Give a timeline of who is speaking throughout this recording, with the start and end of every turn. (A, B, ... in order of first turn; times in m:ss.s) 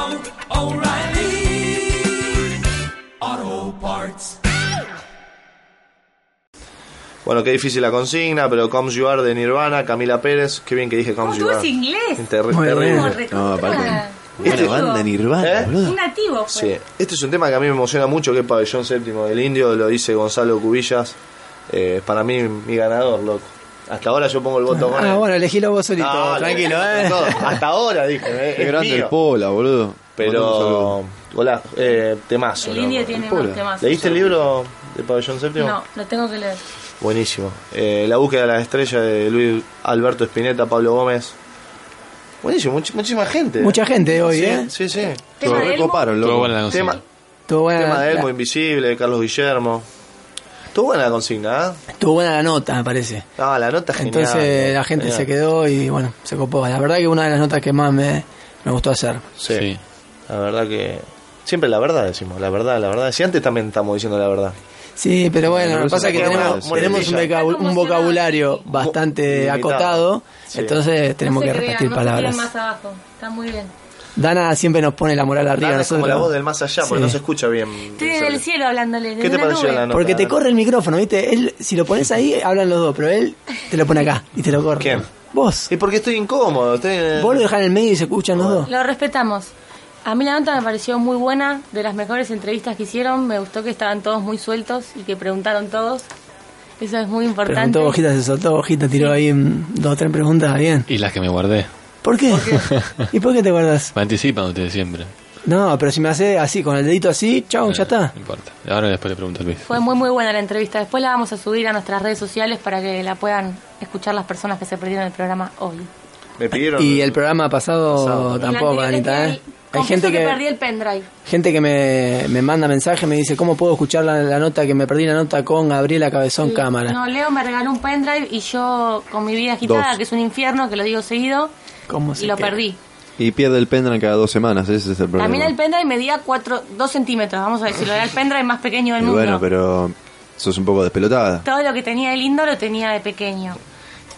0:07.2-0:13.2 A
0:11.2-0:15.1 B
0:12.5-0:13.1 C
0:13.3-0:16.0 D
0:14.4-0:14.8 A
0:15.4-0:15.7 A
0:15.8-0:16.8 B
0:16.5-0:21.2 A
0:21.7-0:25.2 A
0:24.7-0:27.6 C
0:26.0-0:29.1 A
0:28.5-0:31.0 D
0:30.2-0:35.8 A
0:32.6-0:34.2 B
0:33.2-0:33.6 D
0:35.6-0:36.6 B
0:37.0-0:41.4 A
0:42.4-0:45.8 A
0:43.6-0:44.7 C
0:45.4-0:47.0 B
0:45.4-0:46.7 D
0:46.1-0:47.0 E
0:46.7-0:47.0 A
0:47.5-0:48.3 C
0:47.7-0:49.9 A
0:50.7-0:51.8 A
0:51.9-0:53.3 C
0:53.4-0:55.3 A
0:54.0-0:59.2 C
0:59.4-0:59.7 A
0:59.5-0:59.8 E
1:00.3-1:04.6 A
1:05.0-1:12.5 C
1:05.4-1:07.2 D
1:05.9-1:07.3 A
1:07.2-1:08.6 B
1:08.7-1:10.8 A
1:11.2-1:13.7 B
1:14.2-1:17.2 C
1:15.6-1:18.4 A
1:18.0-1:19.9 B
1:19.2-1:20.4 A
1:19.9-1:25.7 C
1:24.8-1:25.1 A
1:25.7-1:27.5 A
1:27.2-1:28.7 C
1:28.3-1:28.7 A
1:28.6-1:29.5 B
1:30.0-1:36.0 B
1:36.8-1:38.0 B
1:37.4-1:40.9 C
1:38.9-1:39.2 B
1:40.9-1:41.7 E
1:42.0-1:43.9 C
1:42.3-1:42.7 A
1:42.6-1:43.0 E
1:44.0-1:45.1 E
1:45.4-1:48.1 C
1:47.6-1:49.8 E
1:49.6-1:55.9 B
1:56.4-1:57.2 A
1:56.5-2:00.4 C
1:57.9-1:58.5 A
1:58.4-2:01.1 B
2:01.2-2:07.0 C
2:06.4-2:11.5 B
2:09.6-2:10.0 D
2:11.9-2:12.6 C
2:12.2-2:12.8 B
2:13.2-2:15.5 D
2:15.2-2:19.5 B
2:19.0-2:21.5 D
2:21.4-2:23.6 B